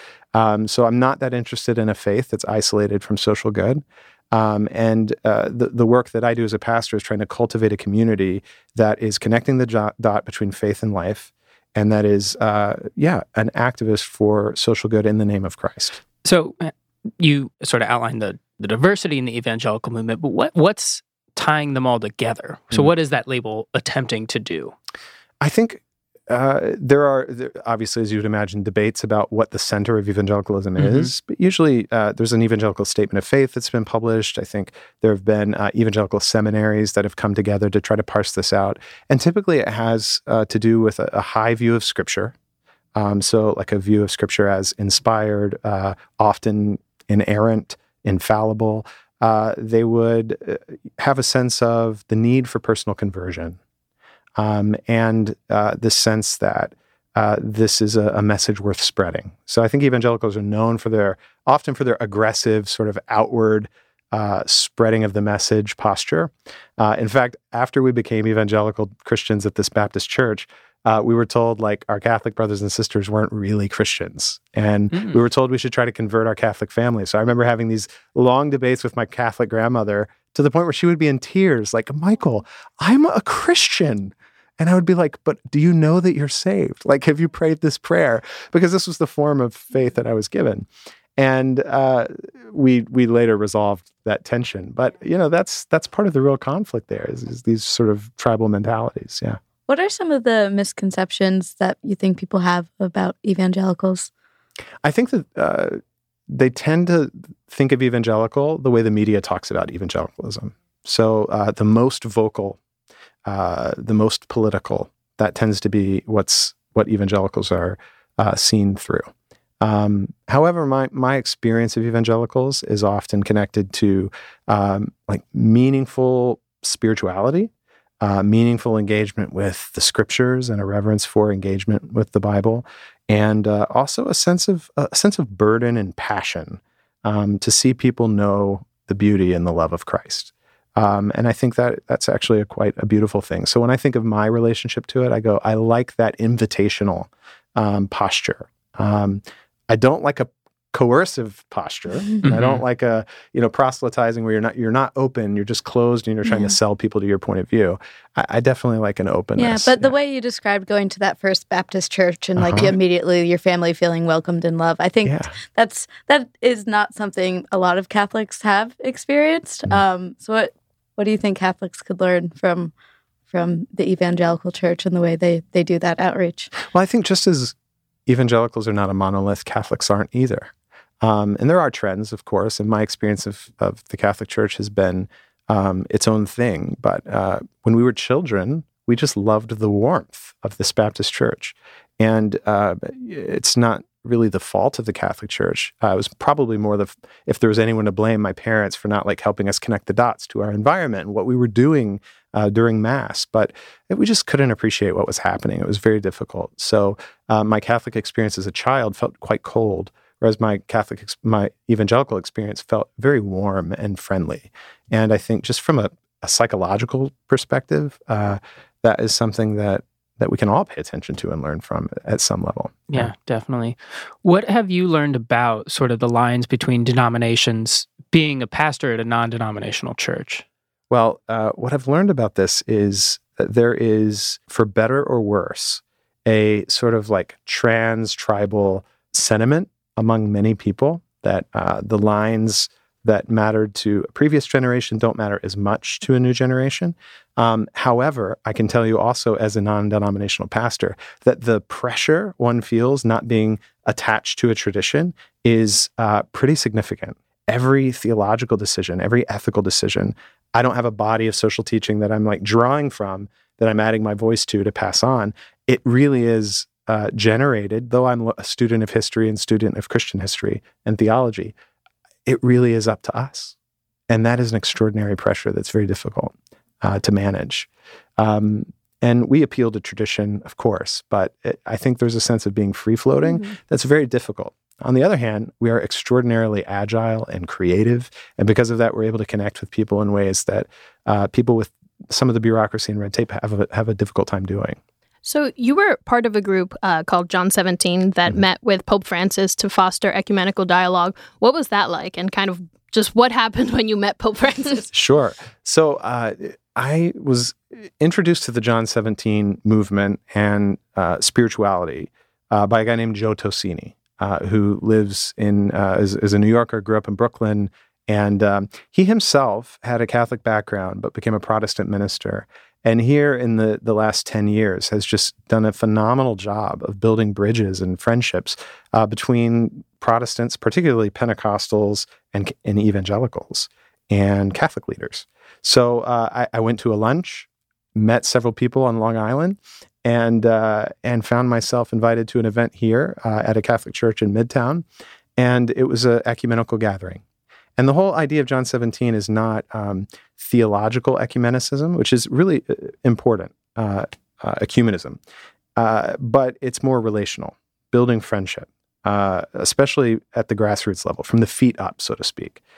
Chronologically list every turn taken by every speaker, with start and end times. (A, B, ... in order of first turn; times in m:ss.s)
0:00.3-0:16.0 A
0:16.2-0:24.7 B
0:25.4-0:42.3 A
0:30.8-0:31.1 B
0:43.0-0:53.6 A
0:54.4-1:39.4 A
1:39.7-1:44.1 C
1:44.8-1:52.6 A
1:53.3-1:59.1 A
1:59.6-2:07.5 A
2:08.0-2:39.9 A
2:32.2-2:32.6 B
2:36.3-2:36.5 C
2:39.4-2:52.7 C
2:42.4-2:42.7 A
2:45.0-2:45.3 A
2:53.3-2:56.5 C
2:56.6-2:57.6 A
2:58.1-3:43.1 A
3:42.9-3:50.4 B
3:50.9-4:31.5 A
4:32.3-4:33.6 A
4:34.1-4:54.8 A
4:55.2-5:04.9 D
5:04.9-5:44.8 A
5:45.4-5:47.2 A
5:47.8-5:55.2 A
5:55.8-6:02.6 A